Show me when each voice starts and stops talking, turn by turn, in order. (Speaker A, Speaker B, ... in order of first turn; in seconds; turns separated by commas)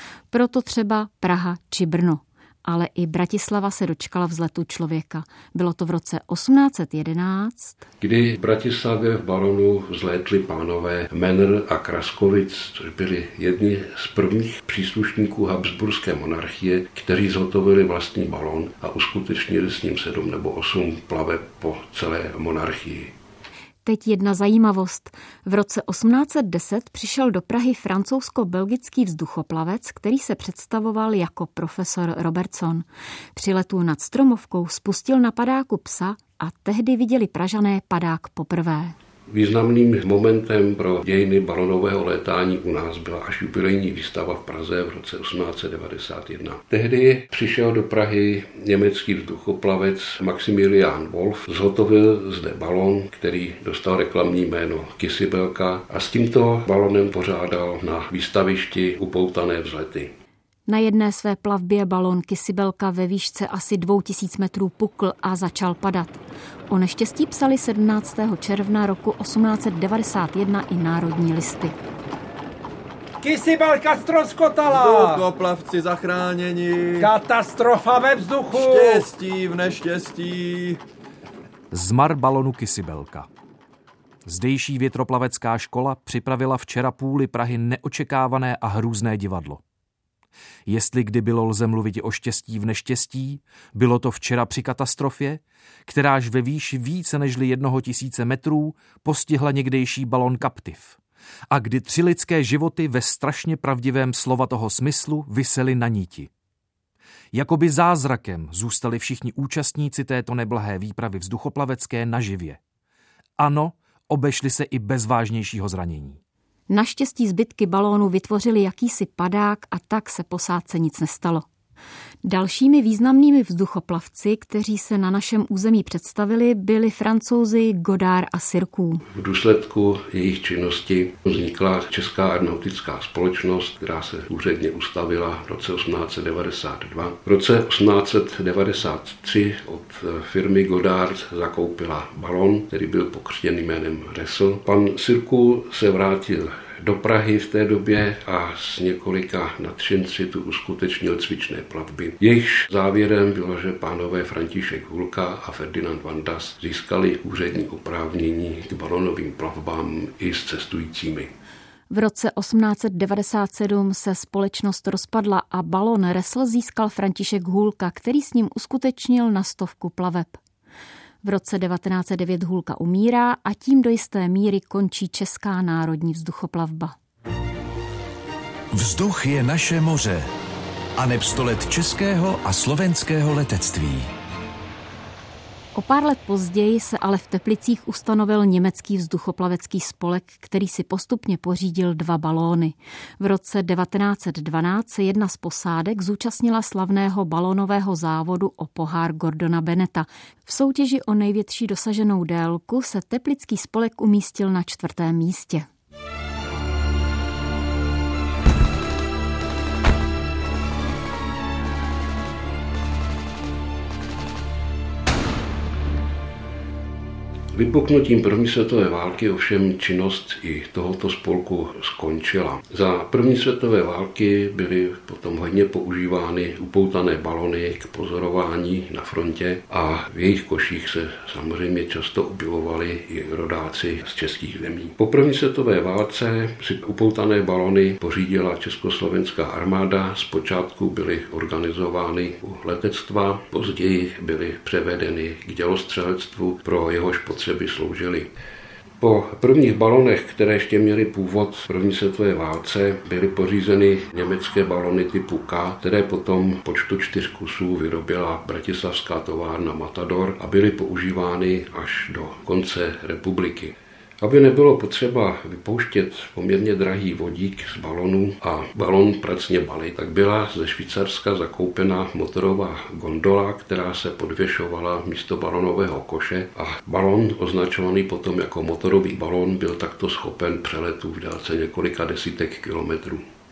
Speaker A: 0.3-7.8, Speaker B: 8.0-23.1, Speaker A: 23.8-39.0, Speaker B: 39.3-60.1, Speaker A: 60.7-71.8, Speaker C: 73.2-75.2, Speaker D: 74.7-77.1, Speaker C: 77.0-79.1, Speaker D: 78.5-80.8, Speaker E: 81.7-83.3, Speaker E: 84.2-89.6, Speaker E: 90.7-101.0, Speaker E: 101.5-106.3, Speaker E: 107.3-112.6, Speaker E: 113.4-116.2, Speaker A: 116.7-121.5, Speaker A: 122.2-129.0, Speaker B: 129.1-161.3, Speaker A: 161.9-170.4, Speaker A: 171.2-176.9, Speaker F: 178.7-180.3, Speaker F: 181.0-184.1, Speaker A: 185.7-205.7, Speaker B: 217.5-248.3, Speaker B: 249.0-283.2